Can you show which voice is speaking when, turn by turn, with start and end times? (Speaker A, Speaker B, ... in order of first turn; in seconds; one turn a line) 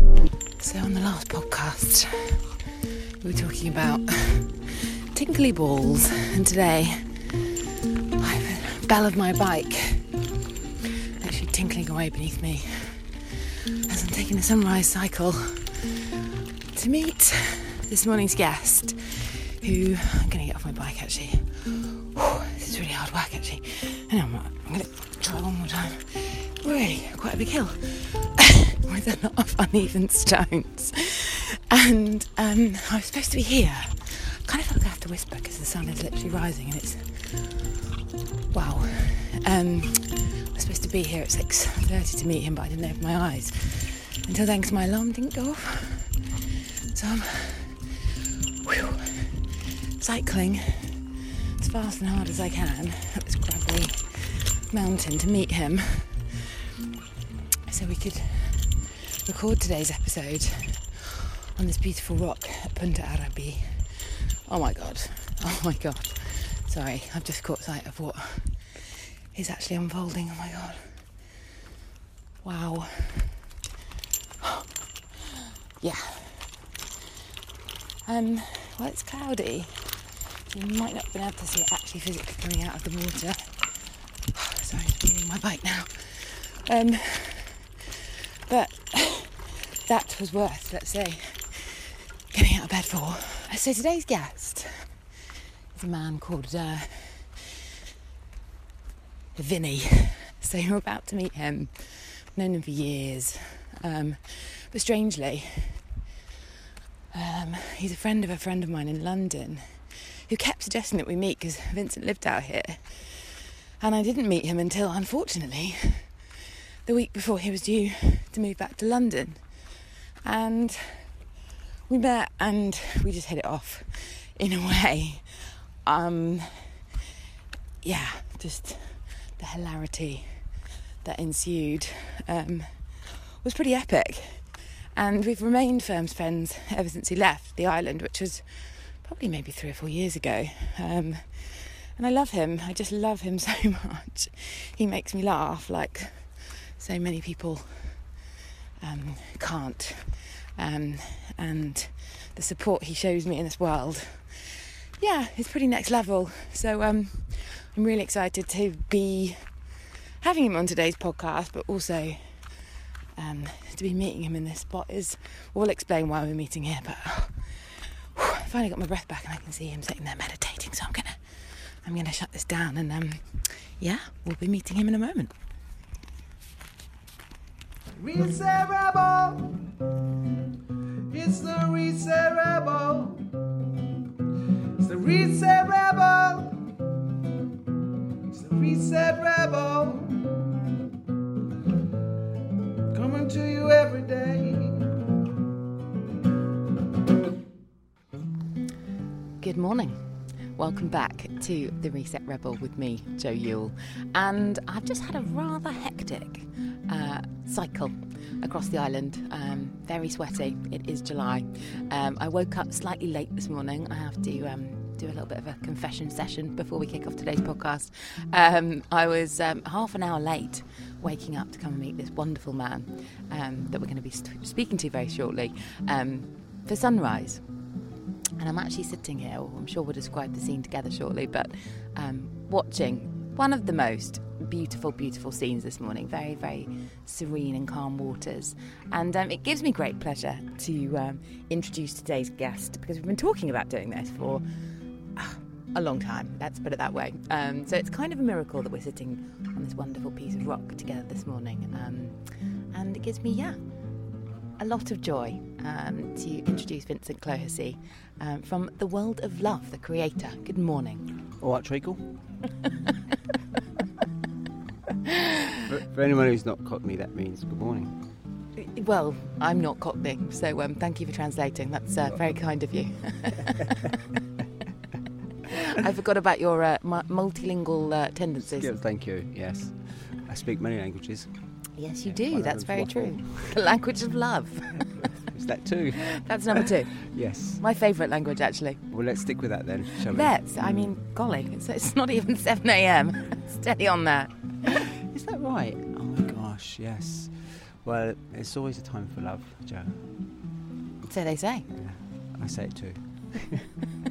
Speaker A: 0.6-2.6
Speaker A: 3.2-7.5
Speaker A: 8.2-10.2
Speaker A: 11.2-16.2
Speaker A: 16.7-37.7
Speaker A: 38.5-48.1
Speaker A: 48.6-56.5
Speaker A: 57.7-71.4
Speaker A: 72.4-73.5
Speaker A: 75.8-76.7
Speaker A: 78.0-87.7
Speaker A: 88.5-95.1
Speaker A: 95.7-97.5
Speaker A: 99.3-105.9
Speaker A: 107.1-116.3
Speaker A: 116.8-121.3
Speaker A: 121.9-126.9
Speaker A: 127.8-148.3
Speaker A: 148.8-175.3
Speaker B: 178.0-179.6
Speaker B: 181.1-183.3
Speaker B: 184.8-186.6
Speaker B: 188.3-190.2
Speaker B: 192.9-194.9
Speaker A: 199.4-227.7
Speaker A: 228.4-253.6
Speaker A: 254.6-261.1
Speaker C: 261.4-262.2
Speaker A: 265.1-265.3
Speaker C: 265.7-268.0
Speaker A: 268.6-273.9
Speaker A: 275.5-278.7
Speaker C: 278.5-281.3
Speaker A: 281.8-285.1
Speaker C: 282.0-283.6
Speaker C: 284.9-287.6
Speaker A: 286.1-288.8
Speaker C: 288.9-290.4
Speaker A: 290.1-294.6
Speaker C: 295.0-300.1
Speaker A: 301.1-301.7
Speaker C: 301.7-303.7